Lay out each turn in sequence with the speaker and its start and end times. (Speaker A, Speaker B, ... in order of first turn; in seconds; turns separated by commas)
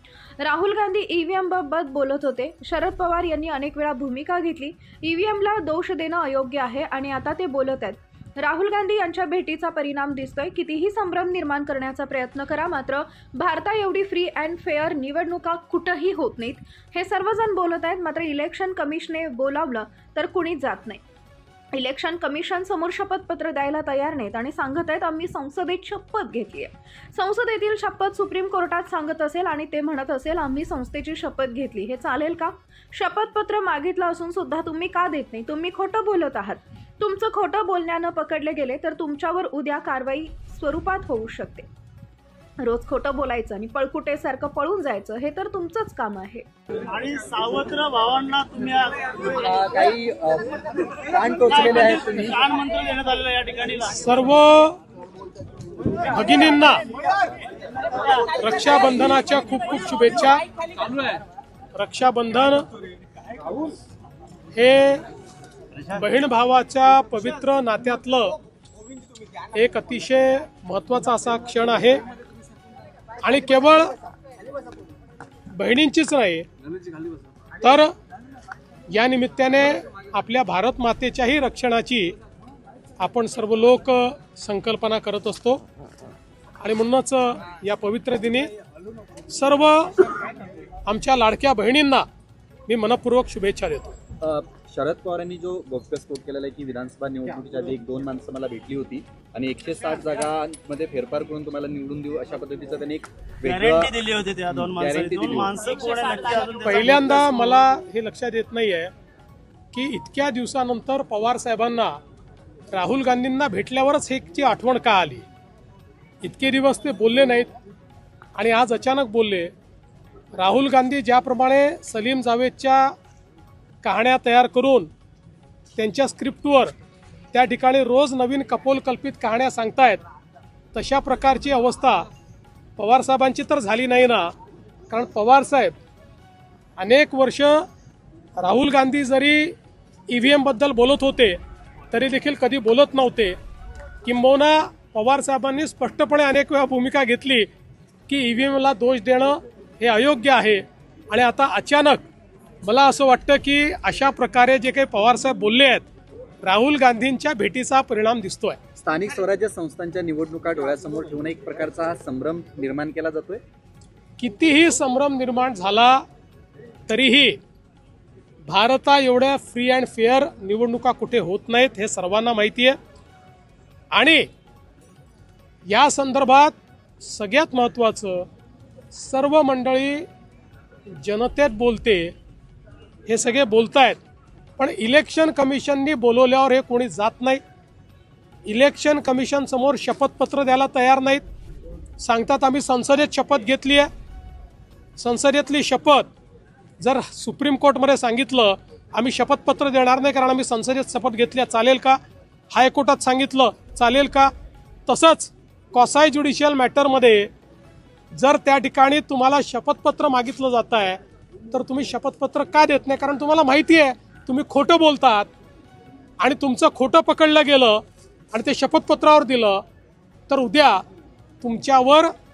Speaker A: 0.4-21.0, Speaker A: 21.7-41.7, Speaker A: 42.6-46.5, Speaker B: 46.8-49.1, Speaker C: 49.3-52.4, Speaker B: 51.5-54.0, Speaker D: 54.0-54.8, Speaker D: 56.1-56.8, Speaker D: 58.3-60.4, Speaker D: 61.8-62.6, Speaker D: 64.5-65.0, Speaker D: 65.8-68.3, Speaker D: 69.5-72.0, Speaker D: 73.2-73.9, Speaker D: 75.5-76.5, Speaker D: 77.6-77.9, Speaker D: 78.9-82.1, Speaker D: 83.0-85.6, Speaker D: 86.6-88.5, Speaker D: 89.3-89.9, Speaker D: 90.9-92.0, Speaker D: 92.7-93.9, Speaker C: 94.2-105.5, Speaker B: 103.5-107.1, Speaker D: 106.6-108.9, Speaker D: 109.7-112.0, Speaker D: 112.7-115.2, Speaker D: 116.2-117.5, Speaker D: 118.3-119.5, Speaker D: 120.3-122.9, Speaker D: 123.8-124.9, Speaker D: 125.8-126.7, Speaker D: 127.3-130.0, Speaker D: 130.7-132.1, Speaker D: 132.8-134.3, Speaker D: 134.9-135.8, Speaker D: 136.8-137.7, Speaker D: 138.4-139.5, Speaker D: 140.1-141.4, Speaker D: 141.9-143.4, Speaker D: 144.0-147.5, Speaker D: 148.1-152.0, Speaker D: 152.6-155.8, Speaker D: 156.4-158.6, Speaker C: 158.8-163.4, Speaker D: 164.2-166.0, Speaker D: 166.9-167.4, Speaker D: 168.5-172.8, Speaker D: 173.9-174.2, Speaker D: 175.7-178.3, Speaker D: 178.9-180.1, Speaker D: 181.0-182.1, Speaker D: 183.1-184.0, Speaker D: 184.6-187.4, Speaker D: 188.4-191.2, Speaker D: 192.0-193.9, Speaker D: 195.0-196.1, Speaker D: 196.8-202.0, Speaker D: 202.5-204.3, Speaker D: 204.9-207.3, Speaker D: 208.1-211.0, Speaker D: 211.5-215.3, Speaker D: 216.2-219.6, Speaker D: 220.3-220.8, Speaker D: 221.4-222.1